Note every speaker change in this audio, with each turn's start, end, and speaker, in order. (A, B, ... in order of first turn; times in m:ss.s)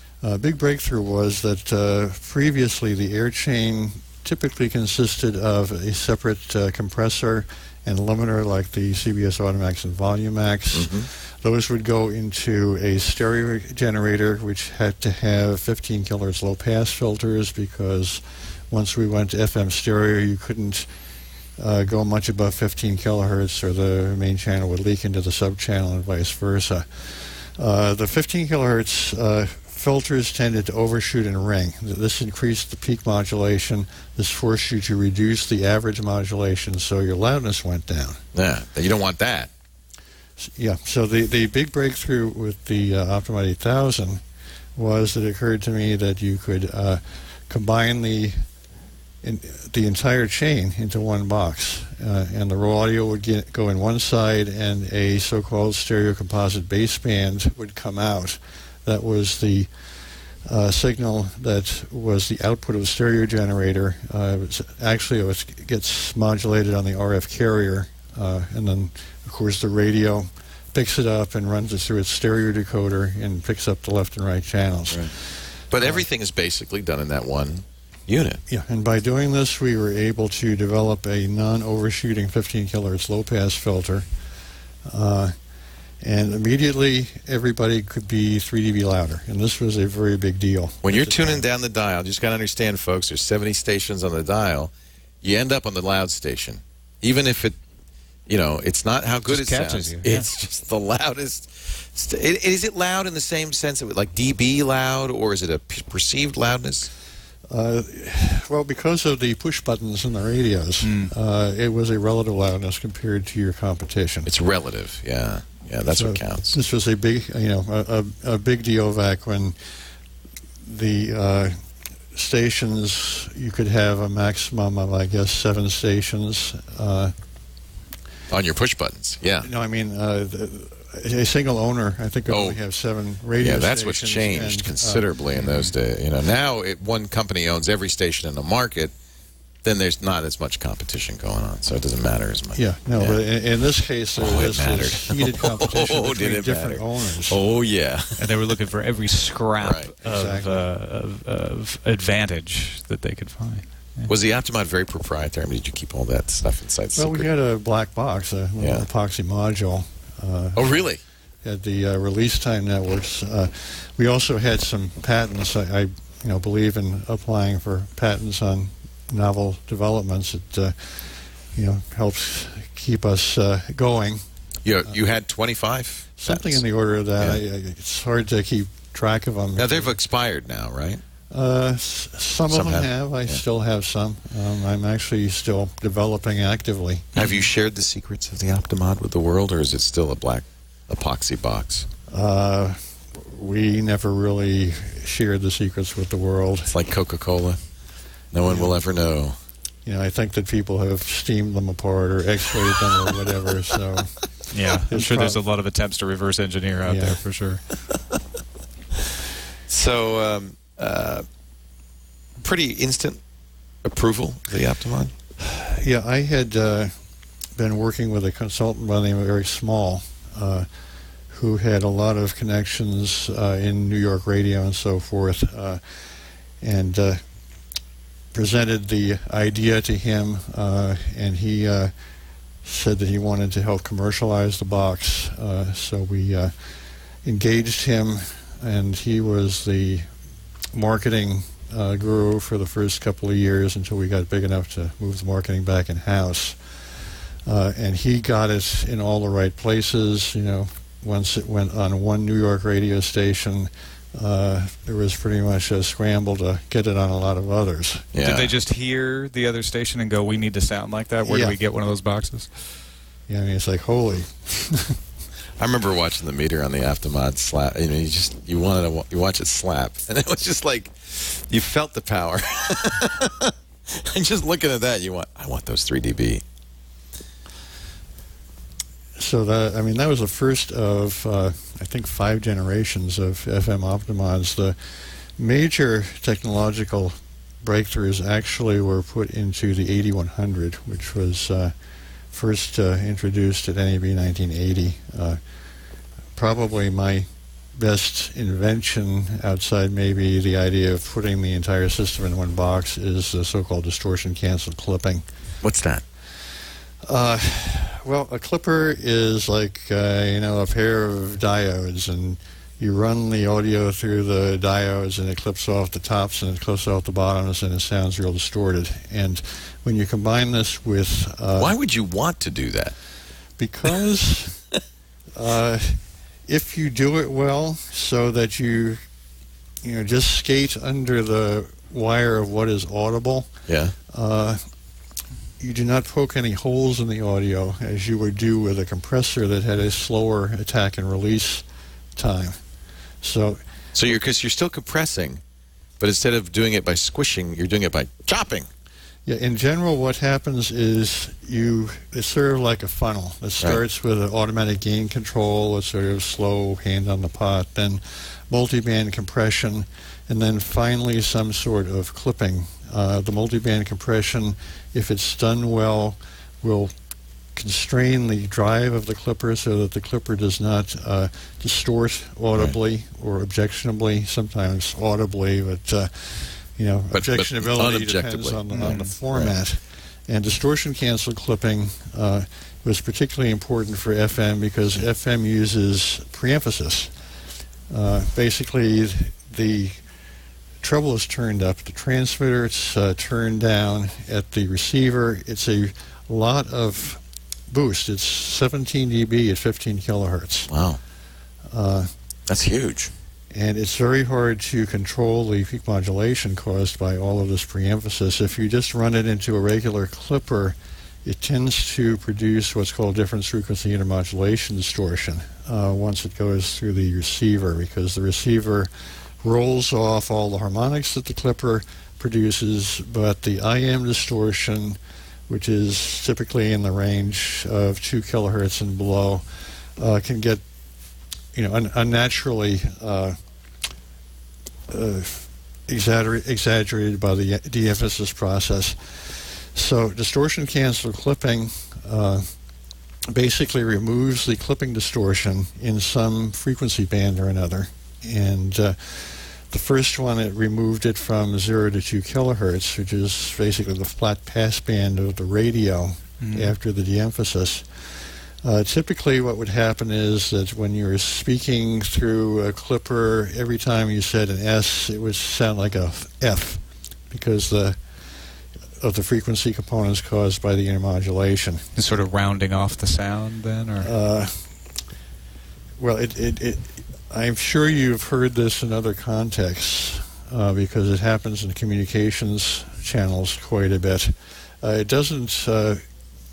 0:00.2-0:20.9 A
0:10.7-0:11.1 B
0:21.6-0:38.2 A
0:38.3-0:39.5 B
0:40.4-0:44.2 A
0:44.8-0:48.4 A
0:49.2-0:59.7 A
1:00.4-1:16.0 A
1:15.7-1:18.4 B
1:18.5-1:24.1 A
1:24.9-1:25.4 A
1:26.0-1:31.5 A
1:30.8-1:37.6 B
1:38.3-1:46.9 B
1:39.3-1:40.3 C
1:47.5-1:54.3 A
1:50.8-1:51.1 C
1:54.3-1:56.6 B
1:55.9-1:59.6 A
2:00.6-2:01.6 A
2:02.1-2:07.1 A
2:08.3-2:09.5 B
2:09.4-2:15.1 A
2:12.3-2:12.6 B
2:13.4-2:18.9 B
2:15.4-2:15.7 C
2:19.6-2:23.2 B
2:22.6-2:27.4 A
2:24.2-2:28.3 B
2:28.2-2:34.1 C
2:29.6-2:29.9 B
2:30.0-2:30.6 A
2:34.1-2:37.3 B
2:37.0-2:40.8 A
2:38.6-2:38.9 B
2:40.6-2:41.0 B
2:41.4-2:54.2 A
2:54.6-2:56.6 B
2:56.2-3:00.0 A
2:59.6-3:01.0 B
3:01.3-3:07.1 A
3:02.5-3:03.4 B
3:07.2-3:07.5 C
3:07.2-3:11.9 B
3:12.1-3:16.7 A
3:16.7-3:17.6 B
3:18.3-3:19.4 B
3:18.4-3:18.8 A
3:19.8-3:24.2 A
3:24.5-3:27.6 C
3:24.9-3:25.4 A
3:26.9-3:27.2 A
3:29.7-3:31.3 B
3:32.4-3:33.2 B
3:33.8-3:35.1 B
3:35.4-3:37.0 A
3:37.6-3:40.7 A
3:41.3-3:45.8 A
3:46.6-3:47.2 A
3:48.3-3:51.9 A
3:52.6-3:56.5 A
3:57.2-4:00.1 A
4:00.7-4:06.6 A
4:07.5-4:18.1 A
4:18.1-4:18.5 B
4:18.2-4:22.5 C
4:21.2-4:21.6 A
4:23.3-4:25.0 A
4:25.6-4:36.4 B
4:39.2-4:51.7 A
4:52.3-4:55.4 A
4:56.4-5:05.2 A
5:05.6-5:06.0 B
5:07.0-5:21.7 A
5:21.6-5:23.0 B
5:23.6-5:24.6 A
5:25.4-5:29.0 A
5:29.8-5:33.5 A
5:33.7-5:34.0 B
5:34.1-5:34.6 A
5:35.6-5:41.6 A
5:42.2-5:42.6 A
5:43.2-5:43.6 A
5:44.0-5:45.4 B
5:46.0-5:48.7 B
5:49.3-6:06.9 A
6:07.6-6:27.1 A
6:17.1-6:19.6 B
6:18.7-6:19.1 C
6:27.9-6:30.0 A
6:30.8-6:40.7 A
6:40.7-6:41.0 B
6:41.7-6:42.1 A
6:42.5-6:43.1 B
6:43.5-6:58.9 A
6:59.4-7:10.6 A
7:11.6-7:13.4 A
7:14.9-7:22.5 A
7:23.3-7:48.0 A
7:36.4-7:36.7 C
7:49.0-7:51.9 A
7:52.0-7:54.1 C
7:54.0-7:54.8 A
7:56.0-8:06.0 A